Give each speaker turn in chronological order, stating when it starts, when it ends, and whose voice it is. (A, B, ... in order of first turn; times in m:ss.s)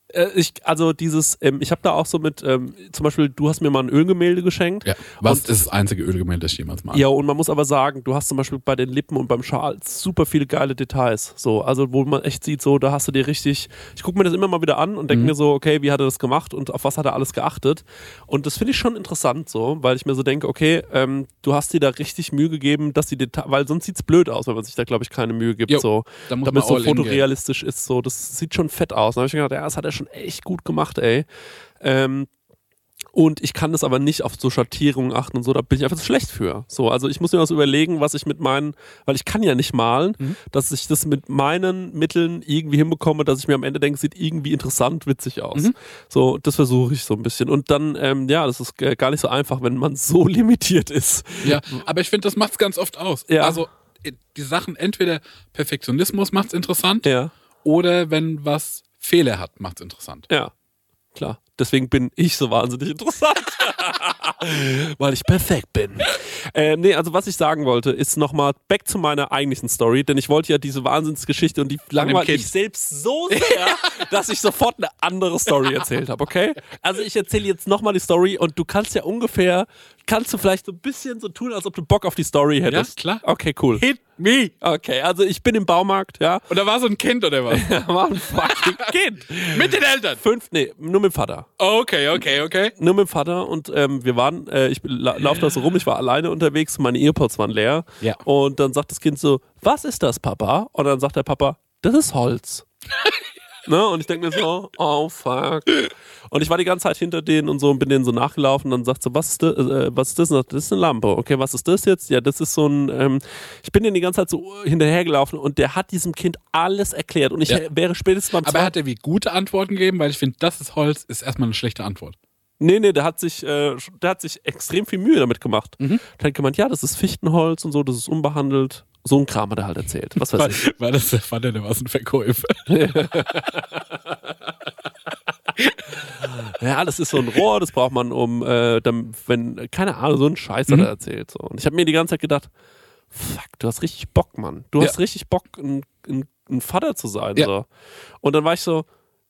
0:00.1-0:05.6 A
0:04.8-0:07.0 B
0:06.9-0:31.3 A
0:25.7-0:27.2 B
0:31.8-0:32.3 A
0:33.1-0:51.8 A
0:51.4-0:57.1 B
0:53.3-0:53.6 A
0:57.0-0:57.3 A
0:57.6-1:00.3 B
1:01.2-1:23.8 A
1:12.0-1:12.5 B
1:13.3-1:14.0 B
1:22.7-1:24.5 B
1:24.6-1:26.4 A
1:26.5-1:30.2 B
1:27.5-1:31.5 A
1:31.6-1:32.7 B
1:32.8-1:42.7 A
1:43.7-1:58.7 A
1:58.4-2:02.2 B
2:02.6-2:10.6 A
2:10.2-2:13.6 B
2:12.7-2:13.7 A
2:16.5-2:22.5 A
2:23.1-2:27.7 A
2:28.2-2:28.9 A